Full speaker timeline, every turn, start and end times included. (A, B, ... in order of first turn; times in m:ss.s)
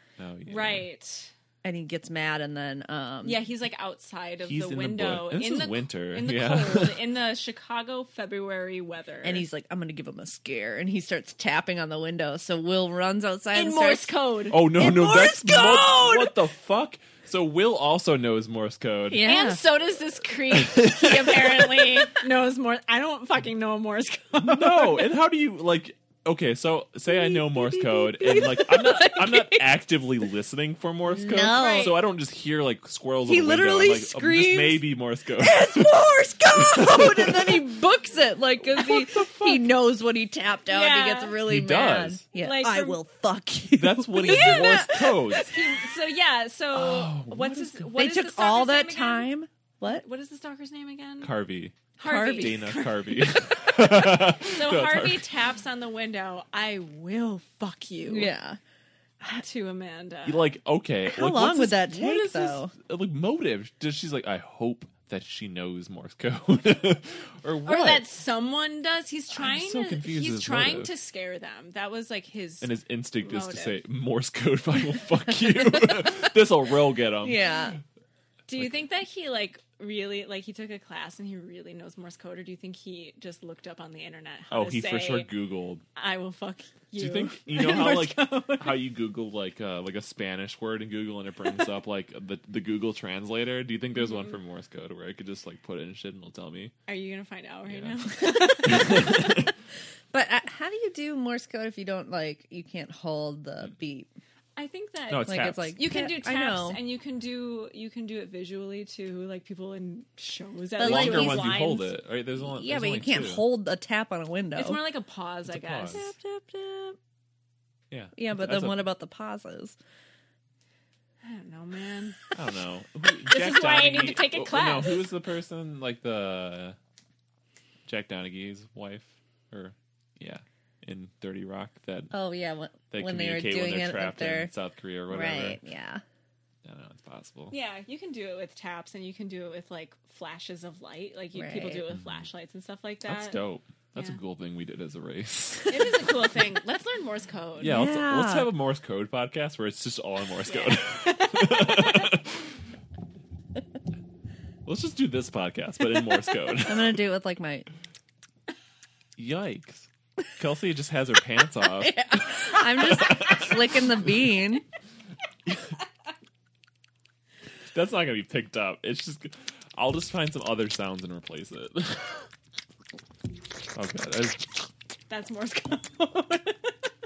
0:00.2-0:00.9 A
0:00.5-0:01.3 B
0:01.6-0:03.4 C
0:03.2-0:09.4 B
0:04.4-0:07.0 A
0:09.2-0:14.1 C
0:13.5-0:14.7 B
0:14.5-0:19.3 A
0:14.7-0:16.4 C
0:19.1-0:19.6 C
0:19.2-0:25.1 B
0:20.5-0:22.0 A
0:24.4-0:35.9 A
0:27.1-0:29.7 C
0:31.1-0:32.0 C
0:31.4-0:32.0 B
0:33.2-0:34.8 C
0:35.4-0:45.6 C
0:36.5-0:37.7 A
0:38.7-0:39.7 A
0:40.7-0:41.4 B
0:41.4-0:42.2 A
0:42.3-0:43.0 B
0:43.8-0:45.5 A
0:44.2-0:49.3 B
0:46.7-0:47.9 A
0:48.0-0:50.0 C
0:49.8-0:51.3 B
0:51.2-0:55.2 A
0:52.0-0:58.3 B
0:52.0-0:52.7 C
0:58.0-0:58.6 C
0:59.4-1:00.4 B
1:00.2-1:08.0 A
1:01.0-1:02.7 C
1:07.6-1:13.8 B
1:09.3-1:10.9 A
1:12.6-1:17.6 A
1:15.4-1:16.3 C
1:17.2-1:17.8 C
1:18.5-1:25.3 B
1:24.5-1:25.8 A
1:26.0-1:28.8 B
1:27.0-1:36.7 A
1:36.9-1:39.4 B
1:37.7-1:38.1 A
1:38.6-1:39.5 A
1:38.7-1:39.2 C
1:40.1-1:44.1 C
1:44.6-1:51.9 B
1:45.1-1:45.8 A
1:45.3-1:46.8 C
1:50.8-1:51.6 C
1:50.8-1:53.4 A
1:52.4-1:54.8 C
1:54.6-1:56.1 B
1:55.5-1:56.0 A
1:55.9-1:57.0 C
1:57.9-1:58.8 A
1:58.1-1:59.8 C
2:01.2-2:02.3 B
2:02.3-2:06.8 A
2:03.3-2:05.1 B
2:07.8-2:12.1 A
2:12.1-2:14.5 C
2:12.9-2:15.6 A
2:15.1-2:16.0 C
2:16.6-2:17.5 A
2:17.5-2:23.4 B
2:21.3-2:21.8 C
2:21.9-2:22.2 A
2:23.0-2:26.1 A
2:25.7-2:27.8 B
2:27.6-2:32.5 A
2:27.6-2:28.5 C
2:30.4-2:32.1 B
2:34.6-2:37.0 A
2:36.6-2:37.7 C
2:39.2-2:43.9 A
2:41.8-2:44.6 C
2:47.7-2:52.2 A
2:53.7-2:54.6 A
2:55.1-2:56.8 B